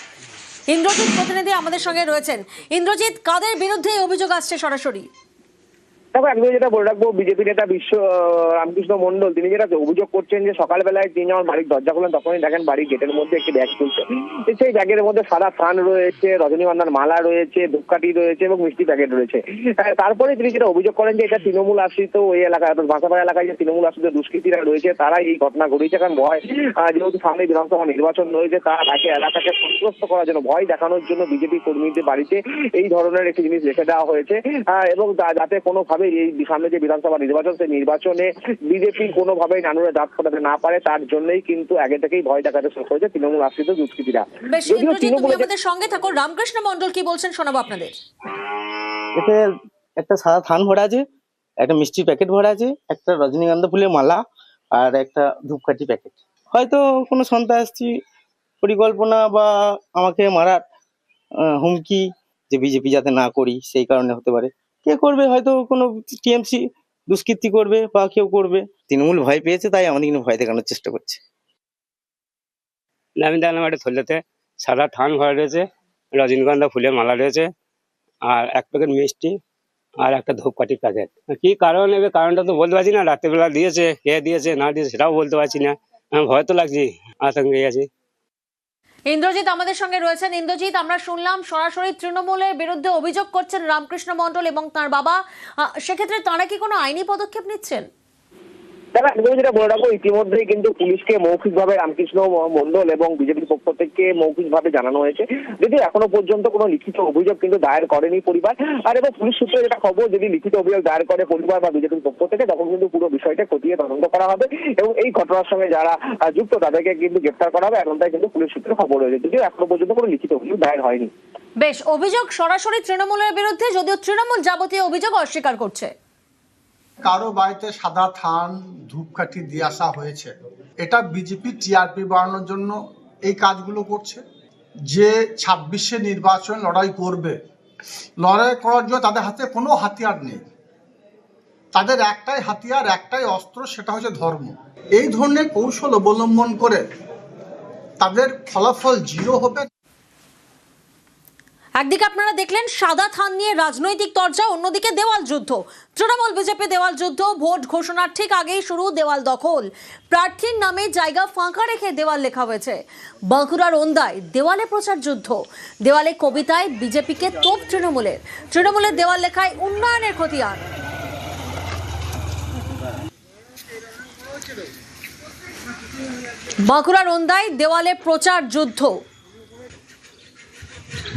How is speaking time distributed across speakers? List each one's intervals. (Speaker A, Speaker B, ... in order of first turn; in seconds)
Speaker A: 0.7-5.1, 44.5-48.0, 89.1-97.9, 121.6-125.9, 151.8-170.6, 176.6-179.0
Speaker B: 6.1-45.5, 98.9-121.1
Speaker C: 49.1-51.0, 51.6-58.0, 58.6-60.6, 61.4-71.2
Speaker D: 73.2-77.5, 78.3-79.3, 80.0-87.9
Speaker E: 127.0-134.2, 134.9-137.4, 138.2-140.4, 141.7-146.8, 148.0-149.7